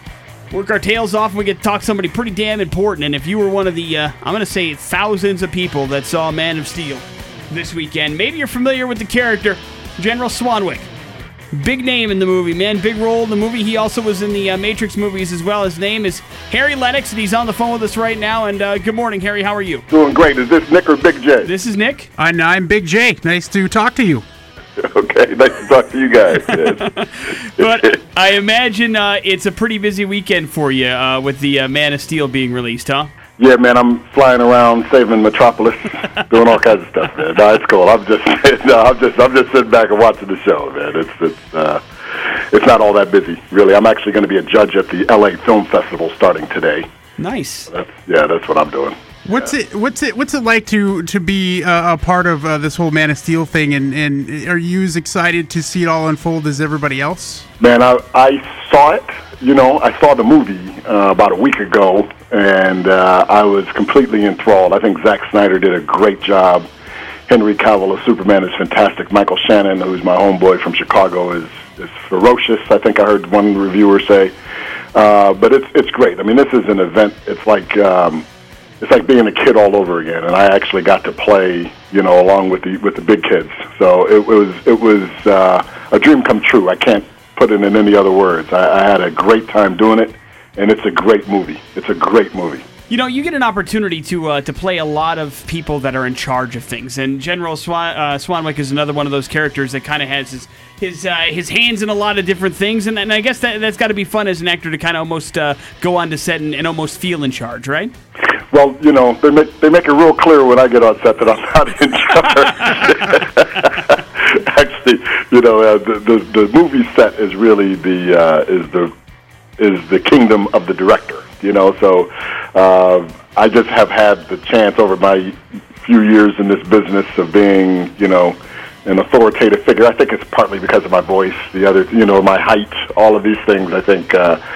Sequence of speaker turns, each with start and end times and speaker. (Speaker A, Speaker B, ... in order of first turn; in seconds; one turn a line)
Speaker A: 0.5-10.9
Speaker A: 11.5-19.8
Speaker B: 19.9-21.5
Speaker A: 21.4-22.1
Speaker C: 22.2-24.2
Speaker B: 24.8-26.9
Speaker A: 26.8-33.1
Speaker B: 27.6-27.9
Speaker B: 33.4-46.9
Speaker A: 47.2-47.7
Speaker B: 47.7-49.0
Speaker C: 49.2-57.5
Speaker B: 57.6-66.7
Speaker B: 67.3-74.3
Speaker B: 75.0-78.2
Speaker B: 78.8-92.6
Speaker A: 92.9-107.9
Speaker B: 108.5-118.9
Speaker B: 119.6-134.4